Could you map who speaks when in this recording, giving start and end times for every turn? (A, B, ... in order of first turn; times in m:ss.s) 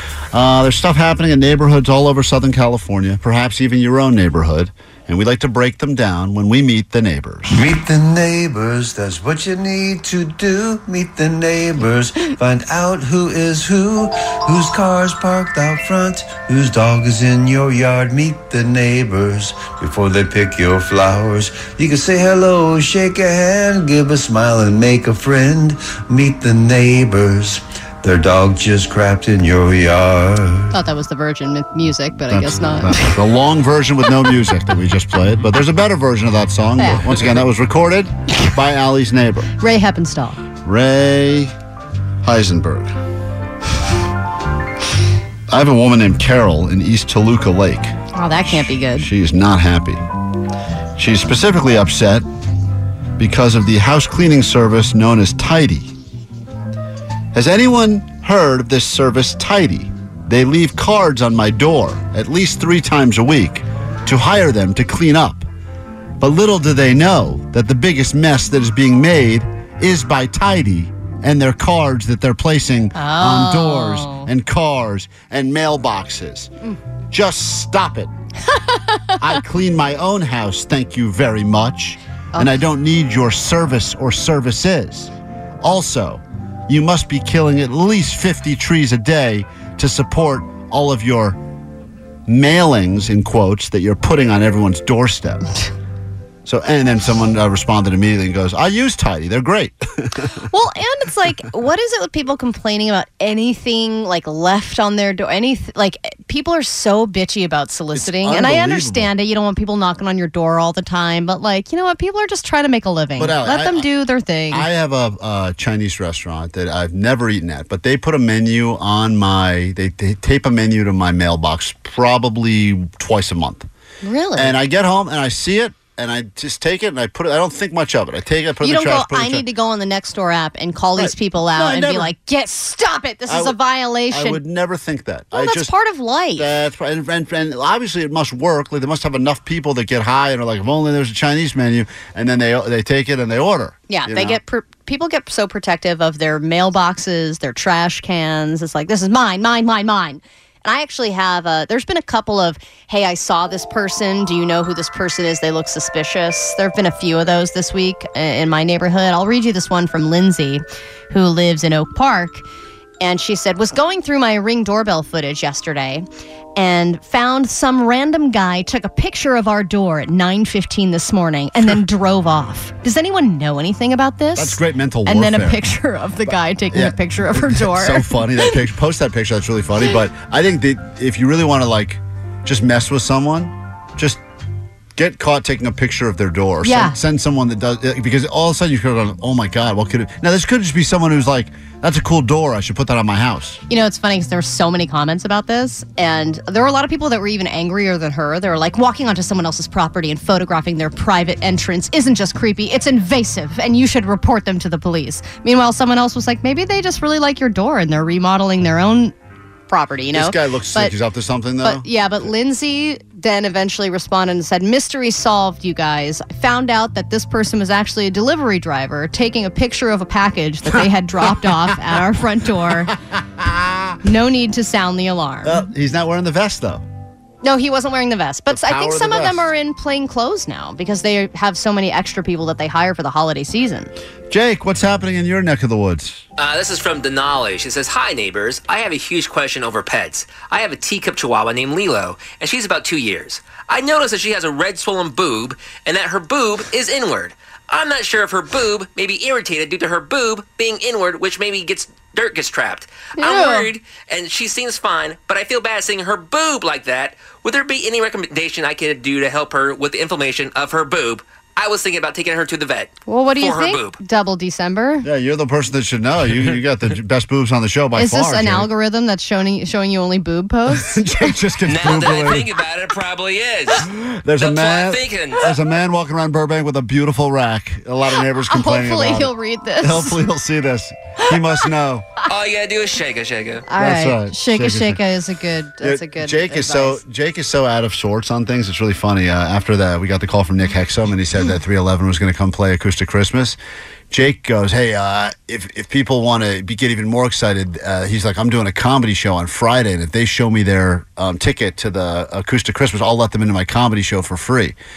0:00.3-0:07.5 A
0:07.5-0:30.7 B
0:30.7-0:33.1 C
0:32.3-0:39.5 A
0:36.8-0:37.1 C
0:39.6-0:40.4 C
0:40.6-0:41.5 A
0:42.2-0:42.9 A
0:45.5-0:47.9 A
0:48.1-0:49.1 C
0:48.5-0:50.0 A
0:51.0-0:52.2 A
0:53.2-0:55.9 A
0:57.3-1:05.4 A
1:06.2-1:16.5 A
1:12.9-1:14.3 C
1:17.1-1:18.1 A
1:18.5-1:19.2 C
1:19.2-1:31.4 A
1:32.3-1:35.4 A
1:36.4-1:40.3 A
1:40.5-1:54.7 C
1:47.9-1:49.1 A
1:53.2-1:53.9 A
1:54.5-2:03.7 A
2:04.0-2:04.6 C
2:04.4-2:09.4 A
2:08.6-2:14.4 C
2:11.0-2:12.1 A
2:13.3-2:13.6 A
2:14.1-2:15.7 A
2:15.3-2:16.5 C
2:16.4-2:24.4 A
2:23.9-2:42.4 C
2:43.0-2:58.4 C
2:54.4-2:55.6 A
2:56.7-3:04.2 A
3:05.0-3:13.6 A
3:06.6-3:07.0 C
3:13.7-3:29.1 C
3:29.7-3:30.9 C
3:30.1-3:31.9 A
3:31.6-3:42.9 C
3:43.4-3:44.0 A
3:44.0-3:45.7 C
3:45.4-3:46.8 A
3:47.4-3:53.9 C
3:48.5-3:49.5 A
3:54.3-3:56.2 A
3:56.4-4:24.0 D
4:13.2-4:13.7 C
4:23.1-4:25.0 C
4:25.0-4:28.7 A
4:27.9-4:31.0 C
4:30.8-4:32.5 A
4:31.6-4:35.5 D
4:33.9-4:42.0 A
4:38.4-4:40.2 C
4:42.3-4:43.6 D
4:43.7-4:47.0 C
4:43.8-4:45.0 A
4:45.8-4:53.6 A
4:54.1-5:04.8 A